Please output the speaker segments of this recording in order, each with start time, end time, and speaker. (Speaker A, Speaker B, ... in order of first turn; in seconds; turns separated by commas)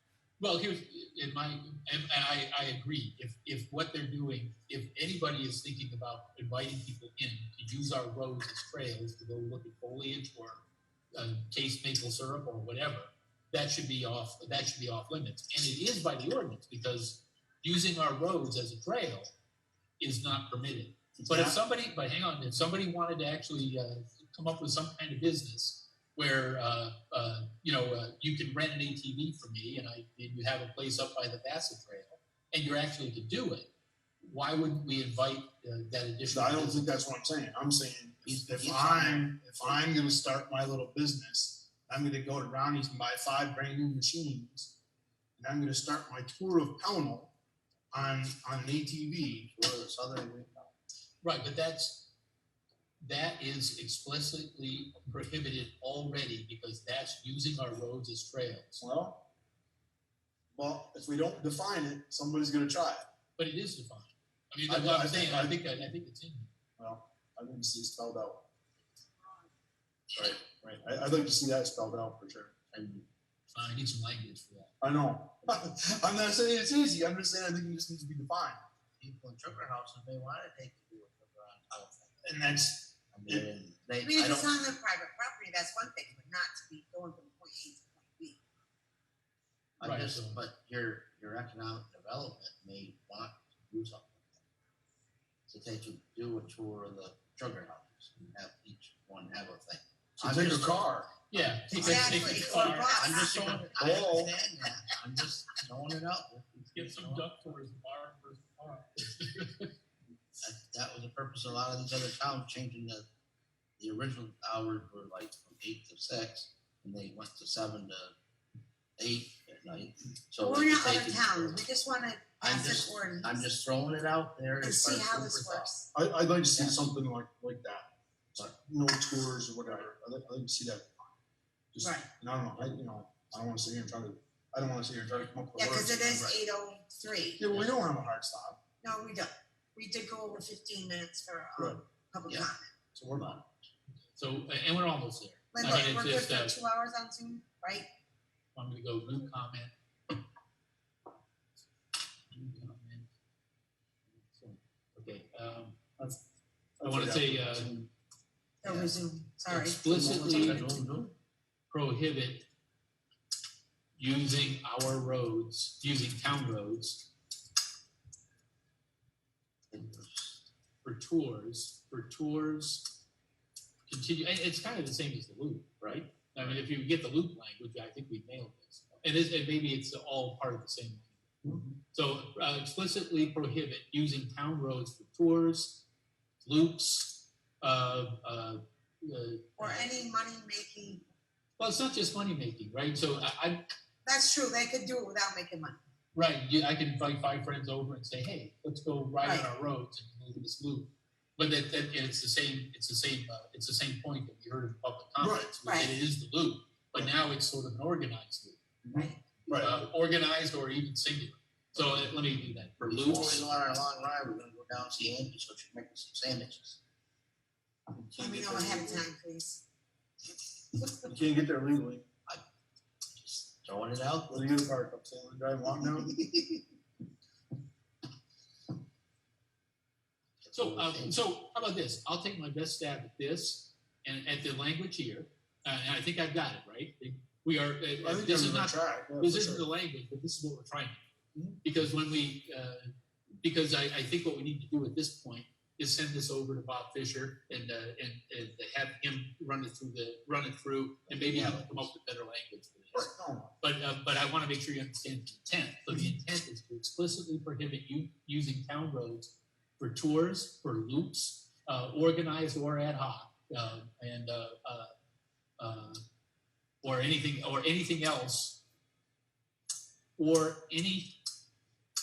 Speaker A: 0.4-19.3, Speaker A: 20.0-33.7, Speaker B: 21.2-21.6, Speaker A: 34.2-37.0, Speaker B: 36.3-44.8, Speaker C: 38.2-39.9, Speaker B: 45.4-47.3, Speaker B: 47.9-49.5, Speaker C: 49.5-50.7, Speaker A: 51.2-52.1, Speaker A: 53.0-58.8, Speaker B: 58.8-59.2, Speaker B: 60.5-63.1, Speaker A: 63.4-66.5, Speaker B: 64.7-65.6, Speaker B: 66.8-68.5, Speaker B: 70.1-72.5, Speaker C: 72.7-73.1, Speaker A: 73.5-74.7, Speaker B: 74.8-78.6, Speaker C: 79.0-82.4, Speaker B: 82.2-83.5, Speaker C: 83.1-84.7, Speaker D: 84.0-88.4, Speaker C: 89.8-94.4, Speaker A: 89.8-90.4, Speaker C: 95.5-107.3, Speaker B: 100.2-101.1, Speaker A: 101.3-103.6, Speaker D: 101.7-103.7, Speaker B: 103.8-104.3, Speaker A: 106.7-109.7, Speaker C: 110.4-113.1, Speaker C: 113.8-118.2, Speaker C: 119.0-121.6, Speaker D: 120.4-123.5, Speaker C: 122.4-125.7, Speaker D: 124.6-125.9, Speaker B: 125.9-127.9, Speaker C: 126.5-126.9, Speaker B: 128.4-131.2, Speaker B: 131.7-136.3, Speaker D: 131.8-132.1, Speaker D: 135.6-137.5, Speaker B: 137.4-138.6, Speaker D: 138.8-142.7, Speaker B: 142.9-143.3, Speaker C: 143.1-143.5, Speaker A: 144.2-146.5, Speaker D: 145.5-147.9, Speaker A: 148.5-149.7, Speaker A: 152.3-153.1, Speaker A: 154.2-155.8, Speaker B: 156.8-157.8, Speaker A: 156.8-157.8, Speaker D: 158.6-159.9, Speaker C: 158.6-159.0, Speaker A: 159.5-160.8, Speaker C: 159.8-161.1, Speaker A: 161.7-162.5, Speaker A: 163.9-167.1, Speaker C: 169.7-170.4, Speaker A: 170.8-173.0, Speaker A: 173.9-181.3, Speaker C: 175.8-176.6, Speaker A: 181.9-185.8, Speaker A: 186.4-189.8, Speaker D: 189.6-191.1, Speaker A: 191.6-193.6, Speaker D: 194.0-195.8, Speaker A: 196.1-208.6, Speaker D: 199.2-199.5, Speaker B: 205.2-205.5, Speaker D: 205.6-205.9, Speaker B: 208.8-209.8, Speaker D: 208.9-209.2, Speaker A: 209.5-213.4, Speaker C: 212.8-216.8, Speaker D: 218.1-219.6, Speaker B: 218.2-219.0, Speaker D: 220.8-221.0, Speaker B: 221.0-222.0, Speaker C: 223.2-224.5, Speaker B: 224.3-226.2, Speaker C: 226.2-226.6, Speaker C: 230.4-231.2, Speaker A: 230.5-241.1, Speaker B: 238.0-239.7, Speaker B: 241.3-241.6, Speaker A: 241.6-242.9, Speaker A: 243.4-264.9, Speaker C: 251.1-251.9, Speaker B: 252.9-253.6, Speaker A: 265.6-266.0, Speaker A: 266.8-268.6, Speaker A: 270.2-271.2